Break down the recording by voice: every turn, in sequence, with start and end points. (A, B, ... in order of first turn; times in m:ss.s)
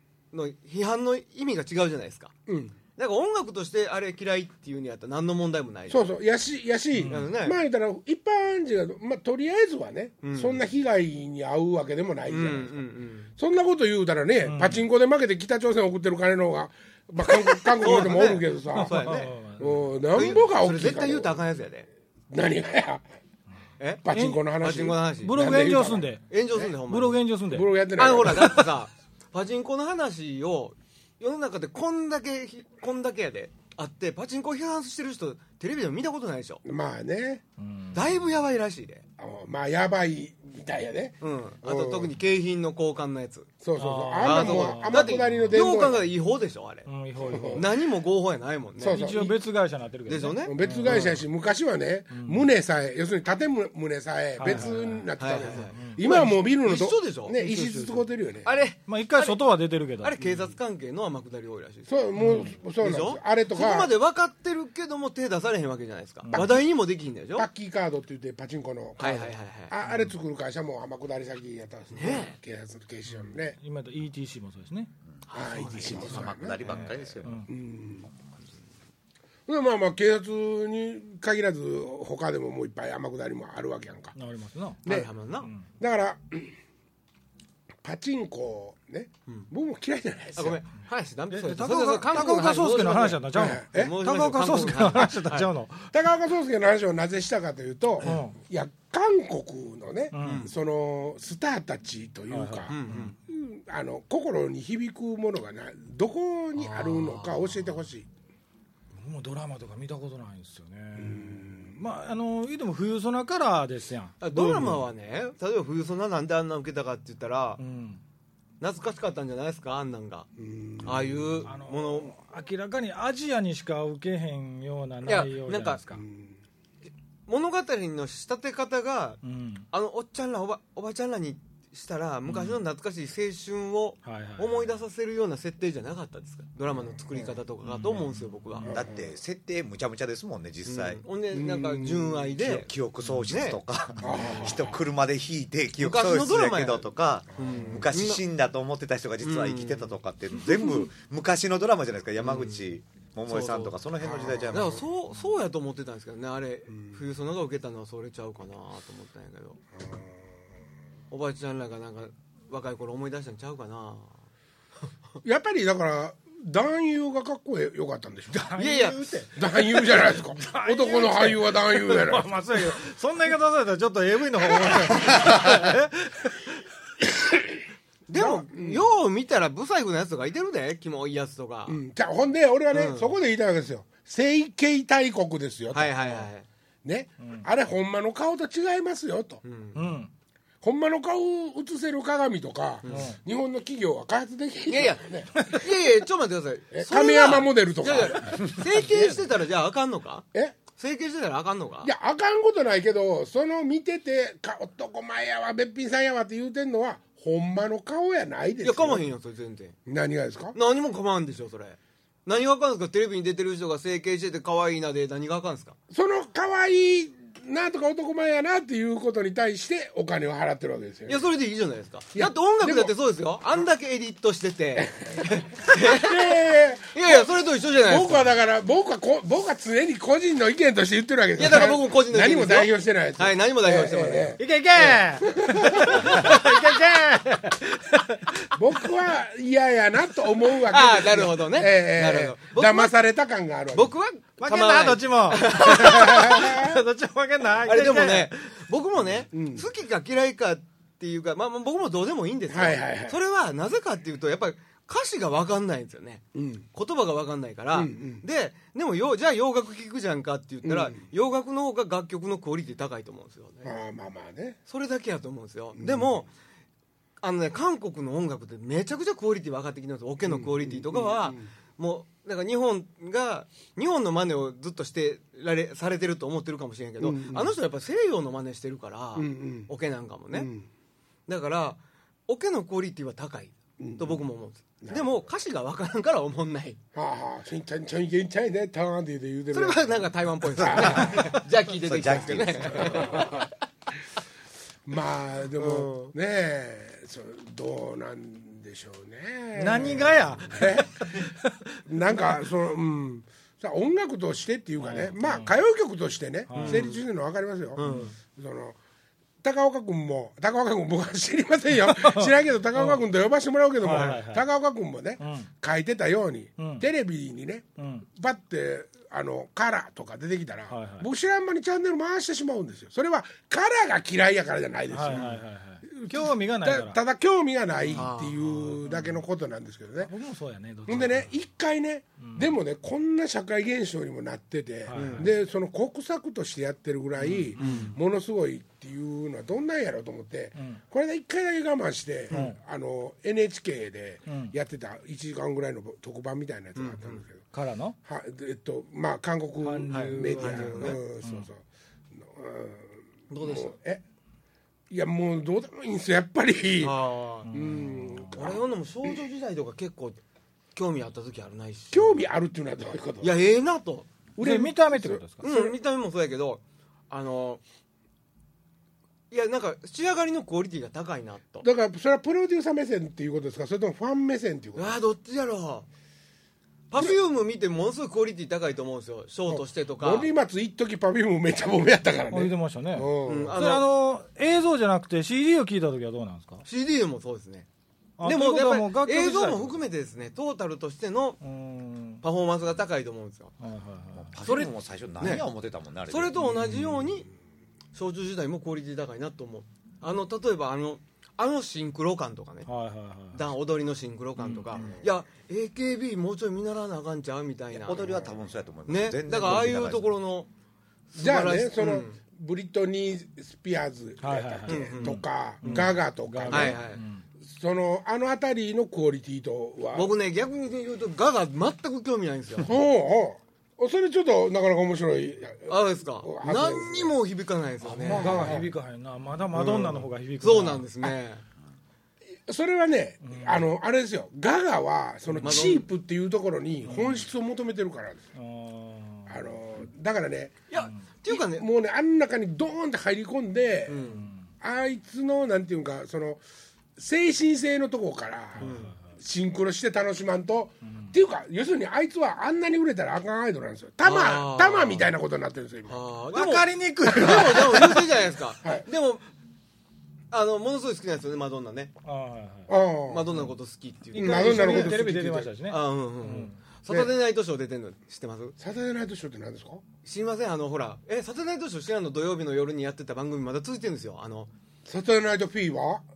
0:00.3-0:02.4 A
0:02.5-0:02.8 B
0:02.9-0:06.1 A
0:05.9-0:12.9 B
0:06.9-0:07.3 C
0:07.1-0:07.6 A
0:10.2-0:10.6 A
0:12.3-0:13.3 A
0:13.4-0:21.4 B
0:14.4-0:14.8 C
0:17.8-0:21.9 A
0:18.7-0:20.4 C
0:22.3-0:23.0 B
0:23.8-0:24.1 A
0:24.0-0:26.7 B
0:24.1-0:24.4 C
0:24.6-0:25.4 A
0:25.2-0:26.3 C
0:26.3-0:27.2 A
0:26.8-0:27.7 C
0:27.5-0:28.7 B
0:28.0-0:36.6 A
0:36.6-0:37.4 B
0:37.6-0:38.2 C
0:37.9-0:39.0 A
0:39.2-0:42.2 B
0:41.2-0:43.5 A
0:43.6-0:46.0 B
0:43.8-0:45.6 C
0:44.2-0:46.9 A
0:46.9-0:47.8 C
0:47.2-0:47.6 B
0:47.5-0:49.0 A
0:48.8-0:49.4 B
0:48.8-0:51.2 C
0:50.1-0:51.2 A
0:50.4-0:58.5 B
0:52.1-0:52.4 C
0:54.4-0:56.0 C
0:55.2-0:59.4 A
0:57.5-0:58.0 C
0:58.9-1:00.2 C
1:00.0-1:01.9 A
1:01.9-1:03.9 B
1:02.2-1:02.6 C
1:02.8-1:07.5 A
1:06.3-1:06.6 B
1:07.4-1:13.6 B
1:09.0-1:09.7 A
1:09.8-1:10.1 C
1:11.9-1:12.4 A
1:13.1-1:14.9 C
1:15.3-1:17.2 A
1:15.3-1:16.6 B
1:15.9-1:17.4 D
1:17.2-1:17.5 C
1:17.5-1:18.1 B
1:19.5-1:24.2 B
1:24.2-1:24.8 C
1:24.8-1:25.1 B
1:24.9-1:25.5 A
1:25.8-1:26.6 B
1:27.8-1:30.6 B
1:30.4-1:35.5 A
1:31.3-1:35.9 C
1:33.4-1:34.0 B
1:35.9-1:48.1 B
1:38.0-1:38.4 C
1:40.1-1:40.5 C
1:40.2-1:40.5 A
1:42.3-1:43.1 C
1:42.7-1:43.2 A
1:46.6-1:47.9 A
1:48.9-1:54.8 C
1:51.0-1:51.8 B
1:54.2-1:57.6 A
1:54.4-1:54.7 B
1:57.6-1:58.0 C
1:58.6-2:00.3 A
2:00.4-2:01.5 B
2:00.8-2:02.2 A
2:01.5-2:06.0 C
2:05.0-2:05.8 A
2:05.9-2:06.4 B
2:07.3-2:09.2 A
2:09.2-2:09.7 C
2:09.7-2:18.8 A
2:12.3-2:12.6 C
2:14.0-2:14.8 C
2:17.6-2:18.6 C
2:18.6-2:19.1 B
2:18.6-2:21.0 D
2:20.7-2:22.7 A
2:21.3-2:22.3 B
2:22.4-2:34.8 D
2:23.3-2:23.6 A
2:24.0-2:24.8 B
2:24.3-2:24.6 A
2:25.8-2:28.2 A
2:27.3-2:27.8 B
2:29.2-2:30.9 A
2:32.2-2:32.7 A
2:33.3-2:39.6 A
2:34.0-2:34.8 B
2:36.7-2:37.0 B
2:39.8-2:40.1 B
2:41.1-2:44.1 A
2:45.2-2:48.6 B
2:48.4-2:56.5 C
2:48.6-2:49.2 A
2:49.4-2:52.4 B
2:54.6-2:55.3 B
2:58.1-3:01.8 A
2:58.2-2:58.8 B
3:01.7-3:06.3 B
3:02.7-3:03.1 A
3:05.7-3:06.5 A
3:06.8-3:09.4 B
3:07.2-3:07.5 C
3:09.4-3:09.9 A
3:09.8-3:10.1 C
3:10.6-3:15.4 B
3:12.8-3:13.2 A
3:12.9-3:13.2 C
3:14.7-3:21.9 A
3:16.7-3:18.5 B
3:18.5-3:19.2 C
3:21.8-3:29.0 B
3:28.6-3:29.8 A
3:29.9-3:30.6 B
3:30.6-3:35.8 A
3:35.9-3:41.2 B
3:41.1-3:46.3 A
3:42.2-3:42.9 B
3:44.8-3:47.3 B
3:46.9-3:48.3 A
3:47.8-3:56.2 B
3:51.4-3:54.4 A
3:54.4-3:58.3 C
3:55.9-3:56.8 A
3:58.6-4:03.9 B
4:00.7-4:02.9 A
4:03.7-4:06.6 A
4:04.4-4:08.3 C
4:05.8-4:06.8 B
4:07.6-4:23.7 A
4:09.3-4:09.7 B
4:12.5-4:13.2 B
4:16.4-4:16.7 B
4:17.7-4:18.2 B
4:20.6-4:21.0 B
4:23.6-4:24.6 B
4:24.7-4:26.3 A
4:25.8-4:26.1 B
4:27.2-4:40.5 A
4:30.3-4:31.5 B
4:37.0-4:37.5 B
4:39.2-4:39.7 B
4:40.3-4:40.7 B
4:41.3-4:46.8 A
4:43.8-4:44.2 B
4:44.8-4:45.3 B
4:47.0-4:51.4 B
4:49.5-4:53.5 A
4:50.5-4:53.1 D
4:52.1-4:53.5 B
4:54.9-5:01.0 B
4:55.6-4:56.1 A
4:59.6-5:01.5 C
5:01.8-5:07.8 B
5:04.9-5:05.5 C
5:06.5-5:06.8 C
5:06.5-5:07.0 A
5:07.8-5:08.1 A
5:07.8-5:08.1 C
5:08.4-5:08.8 B
5:09.4-5:30.1 B
5:11.9-5:13.0 C
5:13.8-5:14.4 C
5:13.9-5:14.2 A
5:15.2-5:15.5 C
5:16.6-5:16.8 C
5:17.8-5:18.1 C
5:20.7-5:21.1 C
5:24.9-5:27.0 C
5:27.8-5:28.1 C
5:28.0-5:28.7 A
5:28.8-5:29.2 C
5:30.1-5:31.3 C
5:30.9-5:47.5 B
5:32.2-5:32.5 C
5:34.9-5:35.3 C
5:34.9-5:35.3 A
5:37.2-5:38.0 A
5:37.6-5:38.0 C
5:42.3-5:42.6 A
5:42.3-5:42.6 C
5:44.3-5:44.6 C
5:46.8-5:47.2 A
5:47.5-5:48.0 C
5:48.0-5:51.6 B
5:49.6-5:51.5 C
5:49.9-5:51.0 A
5:52.2-5:54.0 B
5:53.3-5:53.7 A
5:54.9-5:57.0 B
5:56.8-5:57.5 A
5:57.5-5:58.3 C
5:57.5-5:59.2 B
5:58.3-6:00.2 A
6:00.7-6:02.2 A
6:01.9-6:03.3 B
6:03.2-6:04.1 A
6:04.4-6:05.7 B
6:04.4-6:05.5 C
6:05.4-6:07.6 A
6:09.3-6:11.6 A
6:11.6-6:15.0 B
6:14.8-6:15.9 A
6:16.9-6:20.3 A
6:19.5-6:23.6 B
6:22.3-6:26.6 C
6:23.3-6:23.9 A
6:26.6-6:27.7 A
6:28.2-6:29.8 C
6:28.2-6:31.4 A
6:31.4-6:32.2 C
6:32.2-6:33.5 A
6:33.6-6:34.3 C
6:34.2-6:36.4 D
6:34.4-6:35.4 A
6:36.1-6:37.3 A
6:36.4-6:37.2 C
6:37.9-6:42.7 A
6:42.7-6:43.4 C
6:43.3-6:48.3 A
6:44.4-6:44.8 C
6:44.8-6:45.1 B
6:47.7-6:50.2 D
6:48.9-6:50.5 A
6:51.1-6:52.2 A
6:51.2-6:56.8 B
6:54.2-6:57.2 C
6:54.7-6:55.9 A
6:56.5-6:57.0 A
6:57.5-7:00.1 B
7:00.0-7:02.7 A
7:02.6-7:07.2 B
7:05.7-7:08.7 A
7:07.8-7:11.1 C
7:08.0-7:08.7 B
7:09.5-7:11.4 A
7:12.5-7:18.2 B
7:13.2-7:13.6 C
7:15.3-7:15.7 C
7:15.4-7:15.9 A
7:16.8-7:17.3 C
7:18.4-7:19.4 C
7:19.3-7:20.5 B
7:20.7-7:21.7 A
7:21.3-7:24.0 B
7:23.9-7:24.3 A
7:24.1-7:24.4 C
7:24.6-7:26.4 B
7:27.0-7:36.0 B
7:28.6-7:29.0 C
7:28.6-7:28.9 A
7:30.9-7:31.1 C
7:34.0-7:35.1 A
7:35.9-7:39.3 A
7:36.3-7:38.3 C
7:40.3-7:41.9 A
7:42.0-7:42.7 C
7:42.7-7:43.3 B
7:43.1-7:45.0 A
7:44.1-7:46.6 C
7:44.1-7:45.5 B
7:45.7-7:48.6 A
7:48.6-7:49.8 B
7:50.0-7:54.5 A
7:54.9-7:56.0 B